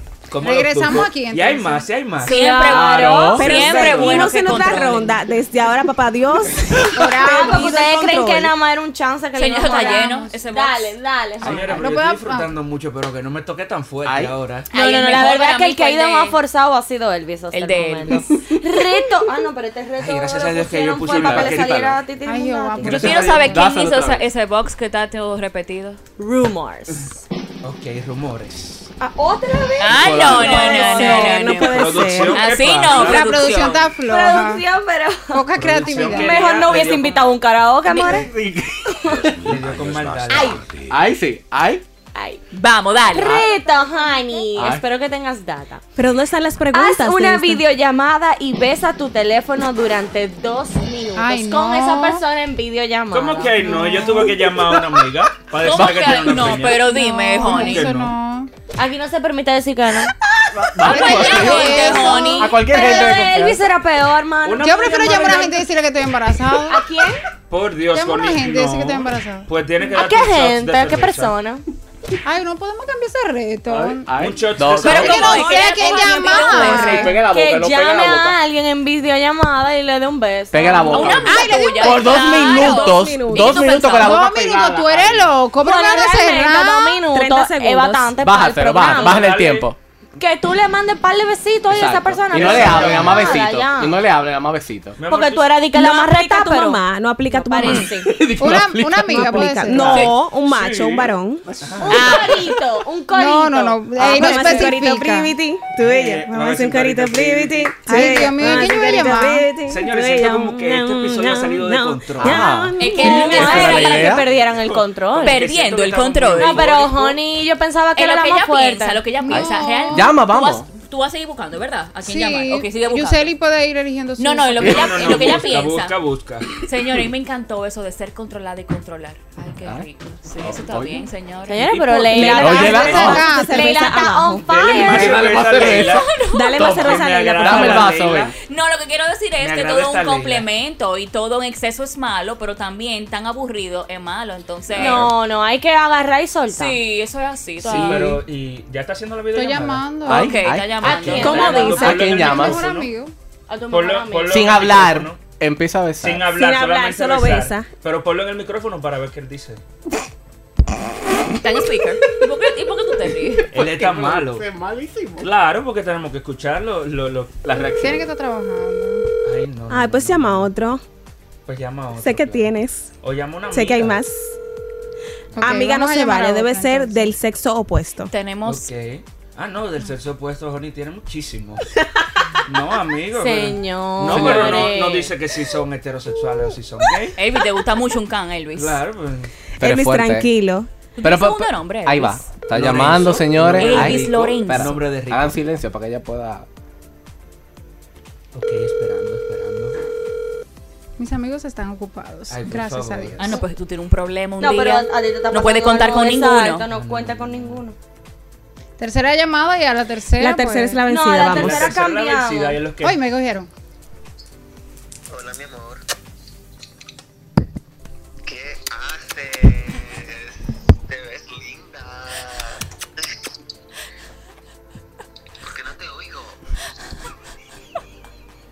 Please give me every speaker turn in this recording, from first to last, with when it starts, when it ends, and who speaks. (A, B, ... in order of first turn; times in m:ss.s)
0:00.3-0:02.4 A
0:00.4-0:01.9 B
0:02.2-0:03.4 C
0:02.2-0:05.2 D
0:02.6-0:03.6 E
0:03.4-0:08.5 F
0:03.5-0:04.3 A
0:06.9-0:07.8 B
0:07.2-0:11.9 C
0:09.3-0:10.9 D
0:09.6-0:10.3 B
0:11.4-0:14.7 A
0:11.7-0:12.5 B
0:14.0-0:14.3 E
0:14.7-0:16.4 D
0:14.7-0:23.2 C
0:17.5-0:18.2 D
0:20.0-0:22.0 A
0:21.1-0:21.8 E
0:22.2-0:23.5 B
0:22.8-0:23.6 A
0:22.8-0:26.0 D
0:23.5-0:24.2 E
0:26.2-0:27.2 C
0:27.6-0:28.9 A
0:29.0-0:31.4 C
0:29.8-0:33.8 D
0:30.0-0:30.6 E
0:30.1-0:30.4 A
0:30.4-0:32.4 F
0:31.4-0:33.7 A
0:32.9-0:34.6 B
0:34.0-0:35.4 C
0:35.3-0:36.5 B
0:35.6-0:37.3 A
0:36.0-0:38.3 C
0:38.2-0:39.7 E
0:39.2-0:40.7 A
0:40.3-0:40.6 C
0:40.9-0:41.8 E
0:42.1-0:42.4 C
0:42.5-0:43.4 D
0:43.1-0:45.8 C
0:43.2-0:43.4 E
0:44.5-0:44.8 E
0:45.9-0:47.6 F
0:46.7-0:54.0 C
0:51.2-0:52.2 B
0:53.1-0:56.8 A
0:55.6-0:57.9 D
0:56.7-0:58.5 B
0:57.4-0:58.1 A
0:58.8-1:00.1 C
1:00.5-1:03.6 E
1:00.8-1:03.2 B
1:00.8-1:02.5 D
1:00.8-1:05.5 C
1:04.4-1:05.6 A
1:04.6-1:06.8 B
1:06.7-1:07.2 C
1:07.5-1:11.3 A
1:07.9-1:09.5 B
1:09.8-1:11.6 C
1:12.2-1:14.1 B
1:13.7-1:15.2 E
1:14.2-1:15.5 A
1:14.8-1:17.2 B
1:14.8-1:17.1 D
1:15.2-1:21.6 C
1:15.3-1:17.1 F
1:16.8-1:18.4 E
1:20.5-1:25.3 E
1:20.9-1:24.2 D
1:21.0-1:21.7 B
1:21.3-1:23.7 F
1:23.9-1:27.0 B
1:25.6-1:29.3 C
1:27.1-1:28.1 F
1:28.2-1:29.8 E
1:28.8-1:29.7 A
1:30.2-1:34.0 C
1:31.7-1:35.0 E
1:32.3-1:33.4 A
1:35.0-1:35.6 A
1:35.1-1:38.1 C
1:35.7-1:38.0 F
1:37.6-1:39.6 E
1:38.4-1:40.0 B
1:39.1-1:41.4 F
1:39.8-1:42.2 A
1:41.8-1:44.6 C
1:41.9-1:42.4 D
1:43.1-1:45.3 B
1:44.0-1:53.4 F
1:45.8-1:48.6 A
1:47.8-1:49.5 B
1:49.7-1:52.4 A
1:52.2-1:54.2 E
1:52.8-1:54.2 D
1:52.8-1:55.4 C
1:54.1-1:57.2 A
1:55.2-1:56.8 D
1:56.4-1:59.0 C
1:58.0-2:03.3 D
1:59.2-2:00.1 B
1:59.3-2:00.6 E
2:02.0-2:05.3 B
2:04.2-2:06.0 D
2:04.6-2:06.5 A
2:06.6-2:12.3 D
2:10.4-2:11.1 E
2:11.5-2:15.3 C
2:11.7-2:12.1 A
2:12.1-2:14.4 F
2:12.4-2:13.2 E
2:12.4-2:13.8 B
2:12.6-2:13.1 A
2:14.4-2:18.3 A
2:14.7-2:18.3 E
2:15.7-2:16.7 D
2:16.3-2:18.1 F
2:18.4-2:25.1 D
2:19.4-2:20.5 A
2:24.7-2:26.8 C
2:24.8-2:25.1 A
2:26.5-2:28.2 D
2:27.6-2:28.2 C
2:27.6-2:30.1 A
2:29.3-2:30.4 B
2:30.0-2:31.0 E
2:30.1-2:31.9 D
2:30.8-2:32.9 A
2:30.8-2:31.8 C
2:31.1-2:32.1 F
2:31.3-2:33.1 B
2:31.7-2:32.6 E
2:33.5-2:34.6 C
2:33.7-2:35.2 A
2:34.3-2:36.3 E
2:36.0-2:39.6 A
2:36.3-2:37.7 F
2:41.4-2:43.5 D
2:43.5-2:44.5 A
2:43.5-2:45.3 E
2:45.2-2:47.8 A
2:47.4-2:48.0 E
2:47.8-2:49.0 B
2:49.2-2:50.5 A
2:49.7-2:50.8 F
2:51.4-2:54.0 A
2:52.0-2:52.9 F
2:53.5-2:54.3 F
2:55.4-2:57.1 B
2:55.4-2:58.1 F
2:58.1-2:58.7 D
2:58.4-3:01.6 A
3:02.4-3:07.2 A
3:03.1-3:05.1 C
3:04.1-3:04.7 E
3:07.2-3:08.8 D
3:08.5-3:09.3 A
3:09.6-3:10.7 F
3:09.6-3:10.3 E
3:11.0-3:12.3 D
3:11.0-3:16.5 E
3:12.5-3:15.4 A
3:13.6-3:14.8 D
3:18.3-3:19.7 A
3:21.0-3:23.4 B
3:22.3-3:23.4 A
3:23.2-3:26.6 D
3:24.4-3:27.8 C
3:26.7-3:27.6 A
3:28.8-3:30.8 B
3:30.2-3:31.7 F
3:30.8-3:32.6 C
3:31.2-3:33.0 A
3:32.8-3:33.5 B
3:35.1-3:35.8 G
3:38.2-3:40.3 G
3:40.8-3:42.6 G
3:45.4-3:46.4 G